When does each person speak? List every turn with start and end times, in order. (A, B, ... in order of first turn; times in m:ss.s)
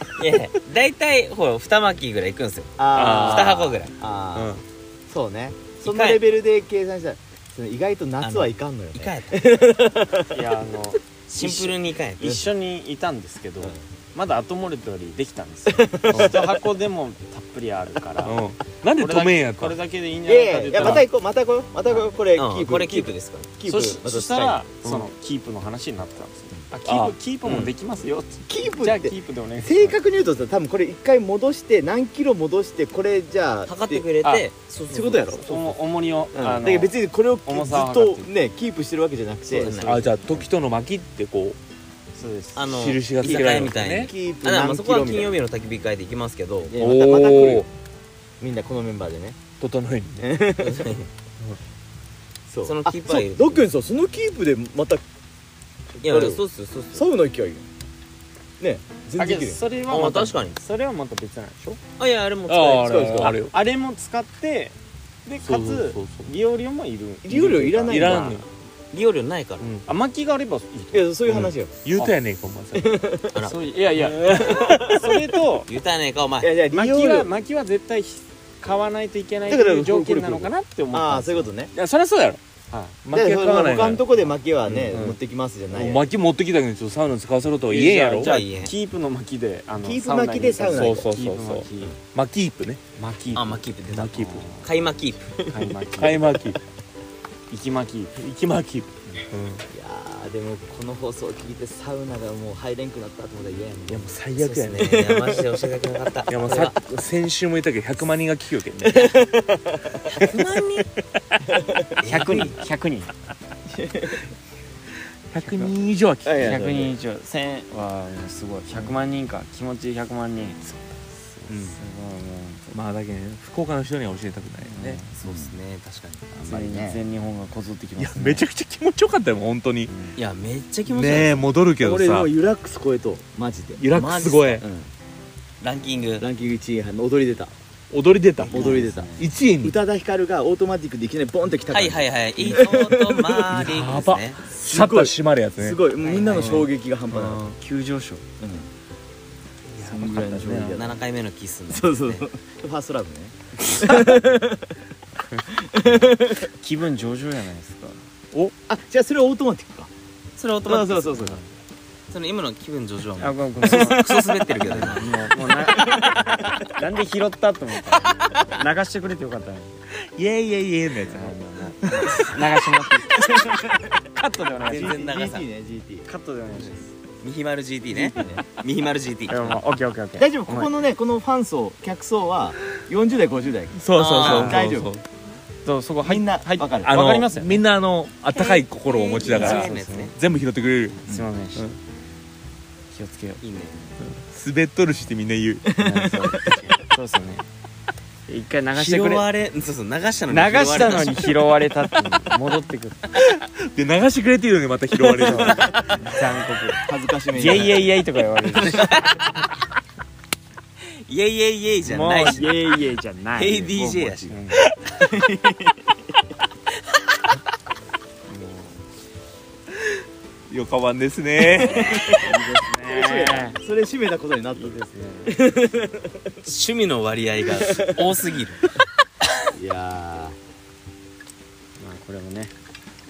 0:00.2-0:03.9 A
0:02.8-0:10.4 B
0:02.9-0:03.7 C
0:04.3-0:04.6 C
0:05.8-0:06.2 A
0:08.2-0:09.4 A
0:10.3-0:18.4 D
0:11.3-0:12.5 A
0:15.7-0:16.4 B
0:18.2-0:19.8 C
0:19.0-0:21.1 D
0:20.2-0:24.6 B
0:20.8-0:21.0 C
0:21.8-0:22.1 D
0:22.3-0:23.5 A
0:23.6-0:30.0 D
0:26.8-0:27.1 C
0:27.4-0:27.7 A
0:28.4-0:34.1 B
0:33.6-0:35.4 A
0:34.2-0:34.5 D
0:34.9-0:35.4 B
0:35.4-0:38.3 D
0:36.3-0:39.8 B
0:39.5-0:40.4 A
0:39.5-0:40.4 D
0:39.8-0:41.6 C
0:42.1-0:42.7 D
0:42.5-0:46.8 A
0:42.6-0:44.1 C
0:43.2-0:45.4 B
0:46.7-0:47.7 B
0:46.8-0:47.7 C
0:48.4-0:49.4 B
0:49.6-0:50.3 C
0:50.2-0:50.9 B
0:50.6-0:51.1 A
0:52.5-0:55.0 B
0:52.6-0:53.7 A
0:56.0-0:57.1 A
0:56.0-0:57.7 B
0:58.6-0:59.6 B
0:59.2-1:01.8 D
0:59.9-1:00.6 A
1:02.0-1:03.3 A
1:02.5-1:03.5 C
1:02.8-1:03.4 B
1:03.2-1:08.4 D
1:05.4-1:06.3 C
1:07.2-1:08.4 B
1:07.9-1:08.5 C
1:08.9-1:09.7 A
1:09.6-1:09.8 C
1:09.8-1:11.1 D
1:10.9-1:11.8 B
1:11.3-1:13.0 C
1:12.7-1:13.4 B
1:13.3-1:13.7 A
1:13.4-1:15.7 D
1:14.1-1:14.8 C
1:14.3-1:15.3 B
1:15.7-1:16.5 A
1:16.4-1:17.3 B
1:16.7-1:21.5 D
1:19.4-1:21.7 B
1:21.7-1:22.4 C
1:22.7-1:23.0 D
1:23.0-1:24.0 C
1:23.1-1:26.1 B
1:24.9-1:25.2 C
1:25.7-1:28.3 C
1:27.7-1:32.0 D
1:28.2-1:28.7 A
1:29.8-1:31.1 B
1:30.7-1:32.8 C
1:33.0-1:34.7 D
1:33.3-1:35.2 A
1:33.9-1:34.5 C
1:35.3-1:35.7 B
1:35.4-1:36.3 D
1:36.0-1:36.6 C
1:37.5-1:38.2 D
1:38.2-1:39.6 C
1:39.7-1:45.5 B
1:43.9-1:45.0 C
1:44.6-1:46.8 A
1:46.3-1:49.1 C
1:48.8-1:49.8 B
1:50.1-1:50.9 A
1:52.0-1:52.6 A
1:52.0-1:53.1 D
1:53.7-1:54.2 B
1:55.3-1:56.5 C
1:55.4-1:55.7 D
1:56.2-1:57.0 B
1:56.4-2:00.6 D
2:01.4-2:02.7 D
2:01.5-2:01.8 A
2:02.7-2:05.0 C
2:04.6-2:05.1 D
2:05.1-2:06.6 A
2:05.2-2:05.6 B
2:06.3-2:07.0 B
2:06.4-2:08.4 D
2:08.0-2:09.9 C
2:09.9-2:10.2 D
2:10.1-2:11.5 A
2:10.9-2:12.3 C
2:11.8-2:14.9 B
2:13.8-2:14.6 C
2:15.6-2:16.2 A
2:16.2-2:17.5 B
2:17.9-2:19.7 C
2:18.4-2:19.2 A
2:18.4-2:23.6 B
2:21.7-2:24.5 A
2:23.5-2:25.8 C
2:24.5-2:27.4 B
2:26.0-2:26.6 A
2:26.4-2:27.6 C
2:26.4-2:26.6 D
2:27.6-2:28.2 D
2:28.4-2:28.7 B
2:29.7-2:30.7 C
2:29.8-2:31.0 B
2:30.6-2:32.3 A
2:31.7-2:34.7 B
2:35.6-2:36.5 B
2:36.6-2:38.1 D
2:38.6-2:39.9 B
2:40.4-2:41.3 A
2:40.6-2:41.4 B
2:41.2-2:41.5 D
2:42.1-2:45.1 A
2:43.2-2:44.1 D
2:43.6-2:45.1 B
2:44.6-2:49.8 D
2:45.6-2:46.3 B
2:50.1-2:52.3 C
2:50.9-2:53.4 D
2:53.2-2:53.8 B
2:54.1-2:55.1 D
2:54.6-2:56.8 B
2:54.7-2:55.4 A
2:56.0-2:56.9 D
2:57.2-2:59.6 A
2:57.9-2:58.4 B
2:59.3-3:00.7 D
3:00.2-3:04.9 B
3:03.7-3:05.0 C
3:03.9-3:04.6 A
3:04.2-3:04.6 D
3:05.6-3:07.6 D
3:06.0-3:07.0 B
3:06.8-3:11.0 C
3:08.3-3:10.1 A
3:09.2-3:10.1 D
3:11.0-3:11.7 D
3:12.9-3:13.4 D
3:13.4-3:14.0 A
3:14.0-3:15.6 C
3:15.7-3:16.6 B
3:15.8-3:17.4 D
3:18.3-3:19.3 D
3:18.7-3:21.3 A
3:20.3-3:23.1 D
3:23.6-3:25.7 C
3:25.2-3:26.0 B
3:25.2-3:28.9 D
3:26.8-3:27.9 B
3:28.5-3:28.8 B
3:28.6-3:29.3 A
3:31.0-3:32.8 A
3:31.8-3:34.6 D
3:33.3-3:34.4 A
3:35.0-3:35.8 B
3:38.3-3:38.8 D
3:40.5-3:42.0 C
3:41.7-3:46.4 B
3:42.2-3:43.6 D
3:44.5-3:45.4 D
3:46.4-3:48.6 A
3:49.5-3:50.4 B
3:51.8-3:52.5 D